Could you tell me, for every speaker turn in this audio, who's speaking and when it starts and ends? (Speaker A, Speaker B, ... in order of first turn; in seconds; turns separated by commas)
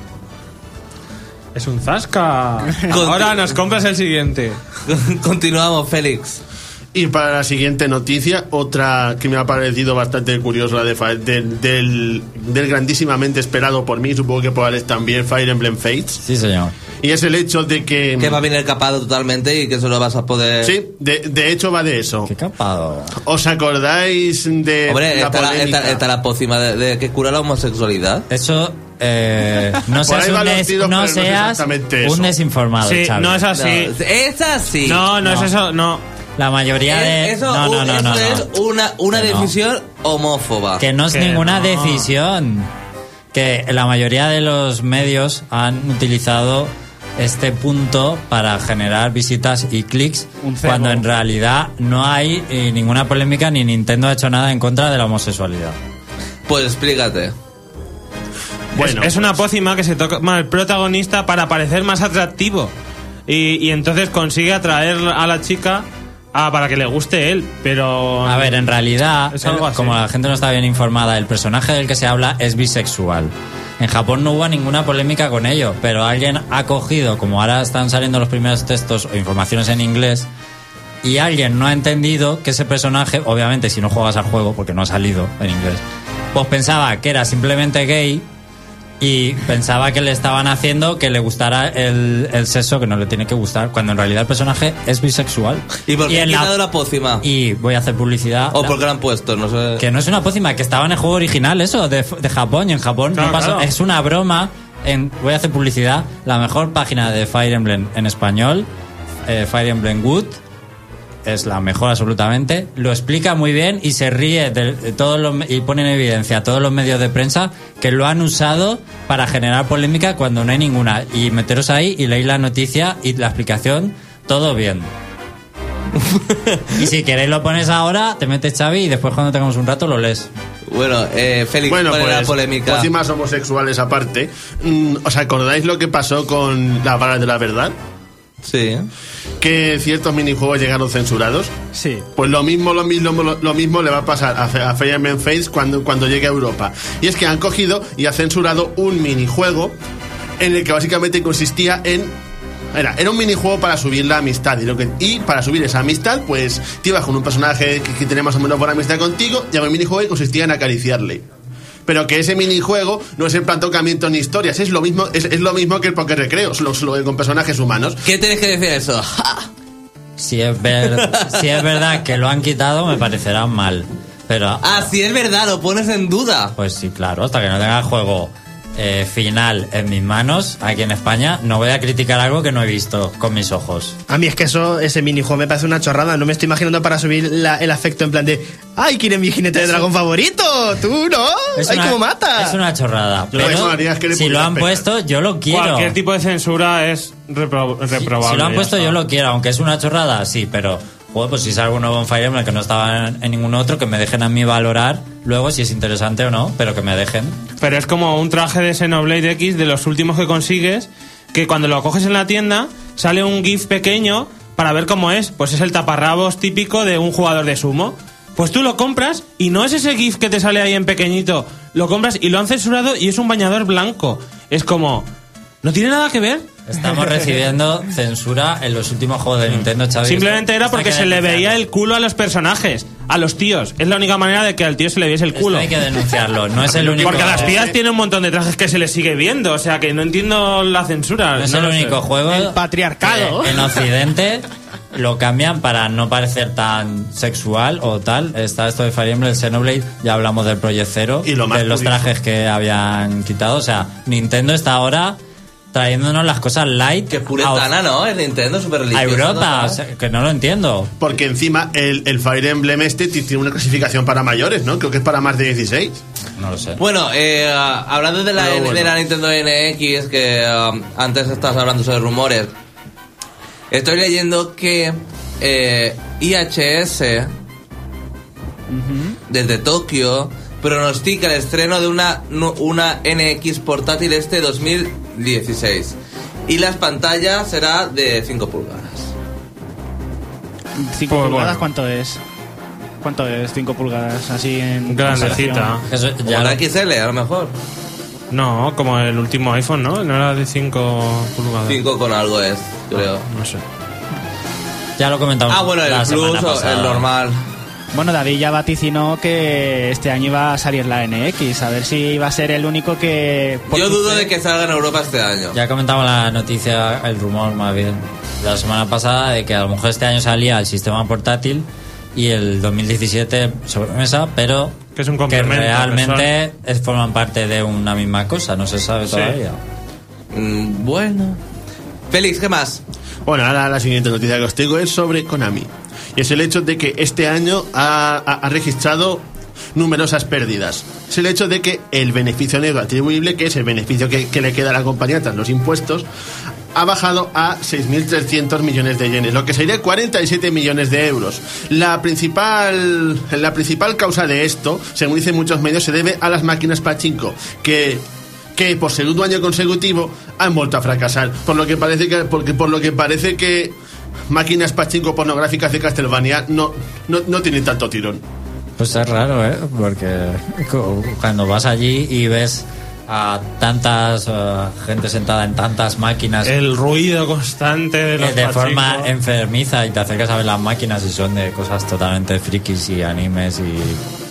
Speaker A: 1.5-4.6, Speaker B: 2.9-3.5, Speaker B: 4.9-6.4, Speaker C: 6.9-16.2, Speaker D: 16.2-16.7, Speaker C: 17.0-18.4, Speaker B: 18.2-20.7, Speaker C: 20.6-22.3, Speaker D: 22.2-23.2, Speaker C: 23.2-26.0, Speaker B: 24.9-28.2, Speaker D: 28.3-33.4, Speaker C: 30.0-32.3, Speaker A: 32.8-33.9, Speaker B: 33.5-35.0, Speaker A: 34.8-36.0, Speaker D: 35.2-35.5, Speaker D: 36.4-38.5, Speaker B: 36.9-40.8, Speaker D: 39.1-39.5, Speaker D: 40.8-42.7, Speaker A: 41.1-42.1, Speaker D: 43.3-55.8, Speaker E: 50.4-51.0, Speaker B: 56.5-57.3, Speaker C: 58.7-59.4, Speaker A: 58.8-62.7, Speaker A: 63.3-68.7, Speaker D: 68.2-80.3, Speaker A: 69.3-70.0, Speaker D: 81.0-88.2, Speaker D: 89.0-96.5, Speaker B: 95.8-97.2, Speaker D: 97.2-98.8, Speaker B: 98.5-99.8, Speaker D: 99.8-108.7, Speaker A: 103.1-103.7, Speaker D: 109.2-110.4, Speaker D: 111.2-124.9, Speaker B: 126.0-126.7, Speaker D: 126.8-130.3, Speaker B: 130.7-132.9, Speaker C: 131.7-137.7, Speaker B: 138.4-138.9, Speaker C: 139.4-141.5, Speaker E: 141.7-142.1, Speaker C: 142.2-149.7, Speaker C: 150.4-152.1, Speaker C: 152.7-161.2, Speaker C: 161.8-168.0, Speaker B: 168.0-169.5, Speaker D: 170.2-174.9, Speaker B: 171.0-171.3, Speaker B: 174.6-176.5, Speaker D: 176.6-184.0, Speaker F: 184.1-192.6, Speaker D: 191.6-195.9, Speaker C: 193.3-194.8, Speaker F: 193.4-193.6, Speaker A: 195.5-199.0, Speaker D: 198.0-207.4, Speaker A: 207.6-225.1, Speaker A: 225.6-226.4, Speaker D: 226.7-231.7, Speaker A: 229.6-235.7, Speaker D: 235.3-237.6, Speaker C: 236.7-237.7, Speaker A: 237.0-242.0, Speaker D: 241.4-255.2, Speaker E: 242.3-243.8, Speaker C: 251.2-252.1, Speaker D: 255.7-257.7, Speaker B: 257.1-259.8, Speaker D: 258.9-260.9, Speaker C: 261.0-266.0, Speaker D: 266.4-266.8, Speaker B: 266.8-272.5, Speaker C: 268.4-268.9, Speaker B: 273.7-277.3, Speaker E: 278.7-279.2, Speaker B: 279.3-285.9, Speaker B: 286.5-289.1, Speaker E: 290.8-292.2, Speaker A: 291.1-291.6, Speaker E: 293.0-295.8, Speaker A: 294.9-295.8, Speaker D: 295.1-296.6, Speaker B: 296.2-297.5, Speaker A: 298.3-301.8, Speaker B: 301.7-303.2, Speaker A: 302.9-303.6, Speaker D: 305.0-307.1, Speaker B: 305.5-307.4, Speaker E: 307.9-314.3, Speaker B: 313.7-315.6, Speaker D: 315.5-329.6, Speaker A: 324.9-326.3, Speaker A: 329.1-329.4, Speaker B: 330.3-331.4, Speaker B: 332.1-332.8, Speaker C: 333.2-339.2, Speaker C: 339.7-346.0, Speaker C: 346.7-358.0, Speaker C: 358.6-363.7, Speaker C: 364.3-368.2, Speaker D: 368.8-376.5, Speaker A: 376.4-379.1, Speaker D: 378.2-384.0